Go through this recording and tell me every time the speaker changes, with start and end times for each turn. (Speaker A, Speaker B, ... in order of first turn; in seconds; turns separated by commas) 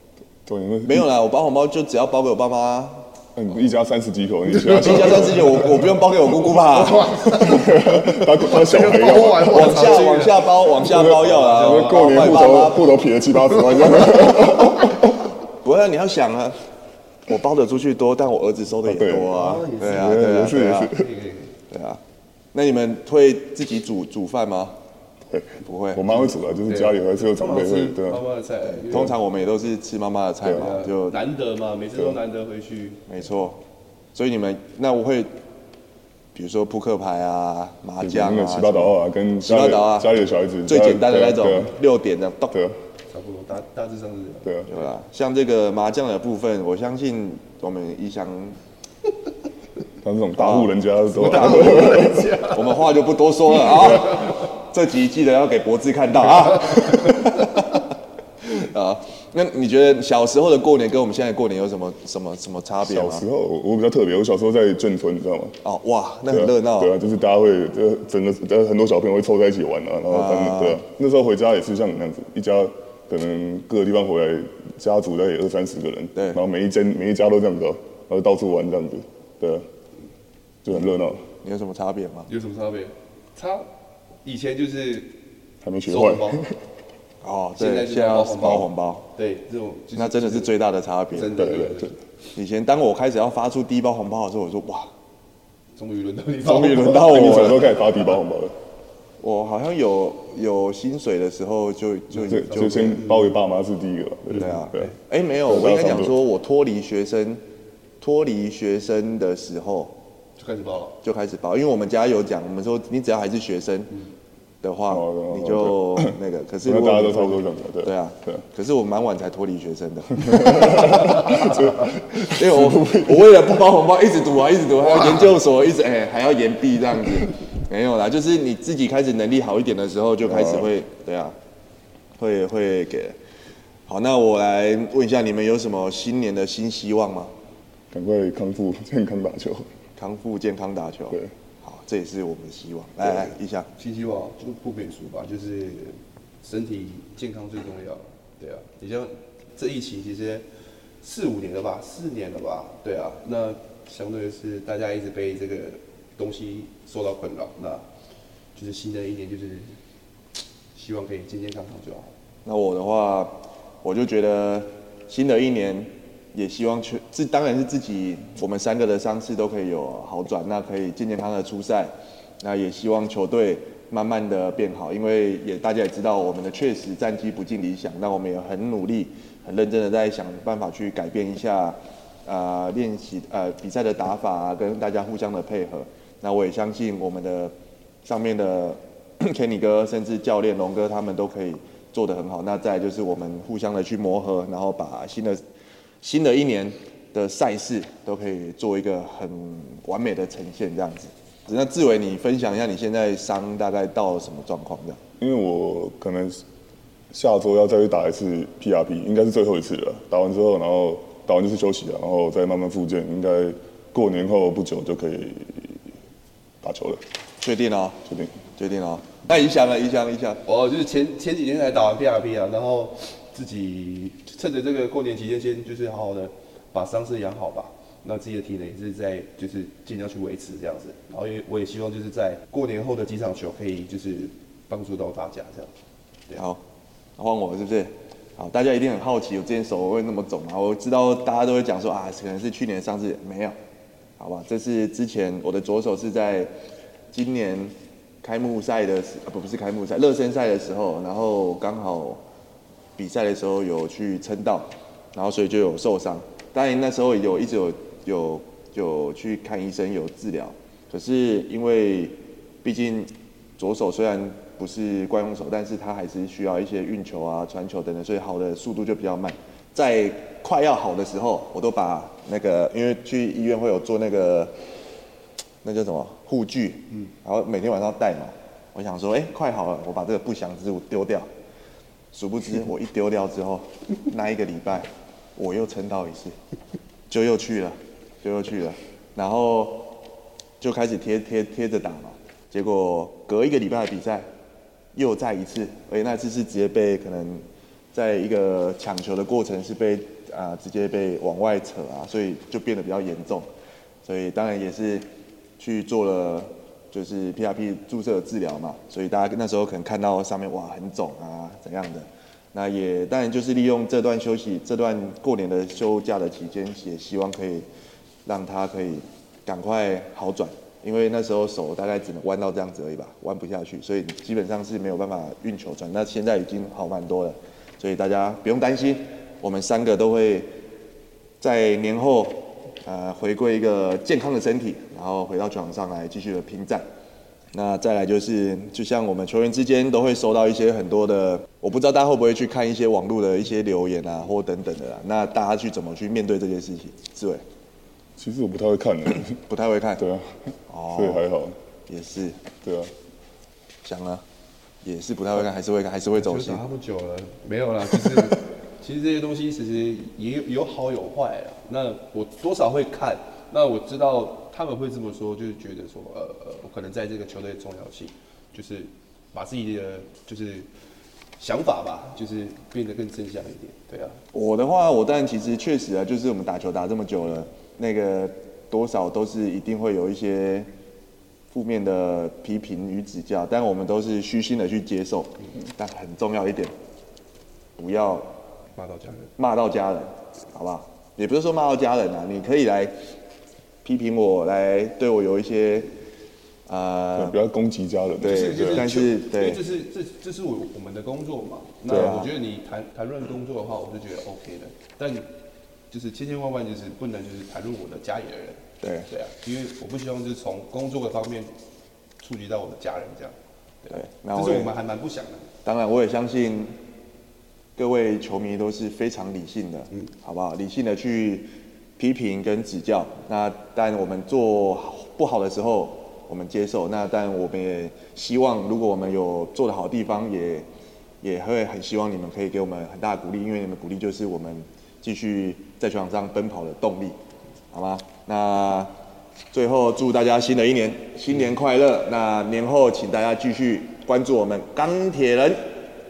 Speaker A: 0.5-1.1, Speaker B: 0.8-3.1, Speaker A: 3.4-5.7, Speaker C: 4.6-5.4, Speaker B: 4.7-7.4, Speaker C: 6.6-12.7, Speaker A: 7.3-10.1, Speaker B: 9.4-13.0, Speaker A: 10.8-15.3, Speaker B: 15.6-16.6, Speaker B: 17.3-20.9, Speaker A: 18.9-21.1, Speaker C: 19.2-21.6, Speaker B: 21.7-22.0, Speaker B: 22.5-24.8, Speaker A: 25.3-28.2, Speaker B: 25.6-26.3, Speaker C: 26.7-29.2, Speaker B: 28.6-31.2, Speaker C: 30.5-33.0, Speaker B: 33.1-33.6, Speaker B: 34.1-35.3, Speaker B: 36.4-42.6, Speaker A: 38.0-41.7, Speaker A: 42.5-42.8, Speaker C: 43.1-44.9, Speaker B: 44.7-48.6, Speaker A: 50.0-52.4, Speaker B: 50.4-57.9, Speaker C: 51.1-52.8, Speaker C: 53.8-54.3, Speaker B: 58.4-63.2, Speaker A: 62.8-65.6, Speaker B: 65.6-66.9, Speaker A: 66.3-79.7, Speaker B: 70.1-70.8, Speaker B: 76.2-76.4, Speaker A: 80.6-81.2, Speaker B: 81.4-82.3, Speaker C: 82.3-83.7, Speaker C: 84.2-85.2, Speaker A: 85.6-86.6, Speaker C: 85.9-86.4, Speaker B: 87.2-89.1, Speaker C: 87.6-90.5, Speaker B: 90.0-91.4, Speaker C: 91.1-92.0, Speaker A: 91.3-91.9, Speaker B: 92.3-94.9, Speaker C: 95.8-97.5, Speaker B: 96.4-97.7, Speaker A: 97.0-98.5, Speaker B: 99.2-103.0, Speaker A: 102.2-104.9, Speaker C: 102.3-103.3, Speaker B: 104.3-107.4, Speaker C: 104.5-104.8, Speaker A: 105.5-106.1, Speaker B: 108.0-110.0, Speaker C: 110.4-111.0, Speaker B: 111.0-113.9, Speaker B: 114.6-131.3, Speaker A: 114.9-118.4, Speaker A: 120.2-123.6, Speaker A: 130.2-130.7, Speaker B: 132.2-133.2, Speaker B: 133.9-137.3, Speaker A: 137.9-139.7, Speaker B: 140.0-143.7, Speaker C: 143.8-150.4, Speaker C: 151.0-157.8, Speaker C: 158.6-159.8, Speaker C: 160.8-162.1, Speaker B: 162.4-195.4, Speaker B: 196.0-205.0, Speaker A: 205.2-206.4, Speaker A: 207.1-215.8, Speaker A: 216.6-217.0, Speaker B: 217.4-218.0, Speaker A: 218.1-218.3, Speaker B: 218.6-220.4, Speaker C: 220.5-235.7, Speaker B: 236.4-236.6, Speaker B: 237.2-243.6, Speaker B: 244.2-246.5, Speaker B: 247.1-252.2, Speaker B: 253.0-274.5, Speaker B: 275.6-281.3, Speaker B: 282.1-286.4, Speaker B: 287.1-289.9, Speaker B: 290.6-294.3, Speaker B: 294.9-303.5, Speaker B: 304.1-305.1, Speaker B: 305.6-317.7, Speaker B: 318.2-330.5, Speaker B: 331.4-336.8, Speaker B: 337.5-347.4, Speaker A: 348.2-349.4, Speaker B: 349.4-350.0, Speaker A: 350.0-351.6, Speaker B: 350.7-351.2, Speaker B: 351.9-352.4, Speaker A: 352.6-352.9, Speaker B: 353.8-354.2, Speaker B: 354.8-356.6, Speaker C: 356.1-370.7, Speaker C: 371.4-374.2, Speaker B: 374.3-380.7, Speaker B: 381.5-386.7, Speaker B: 387.8-388.3, Speaker C: 388.8-389.3, Speaker B: 389.4-392.9, Speaker B: 393.8-395.9, Speaker B: 396.7-397.4, Speaker A: 397.2-398.9, Speaker B: 398.2-399.6, Speaker C: 398.2-405.3, Speaker A: 401.9-402.2, Speaker B: 401.9-402.3, Speaker C: 405.9-411.5, Speaker B: 408.8-409.1, Speaker C: 412.2-415.5, Speaker B: 413.9-414.7, Speaker B: 415.6-416.8, Speaker B: 417.8-430.7, Speaker B: 431.2-437.2, Speaker B: 437.7-438.9, Speaker B: 439.5-445.7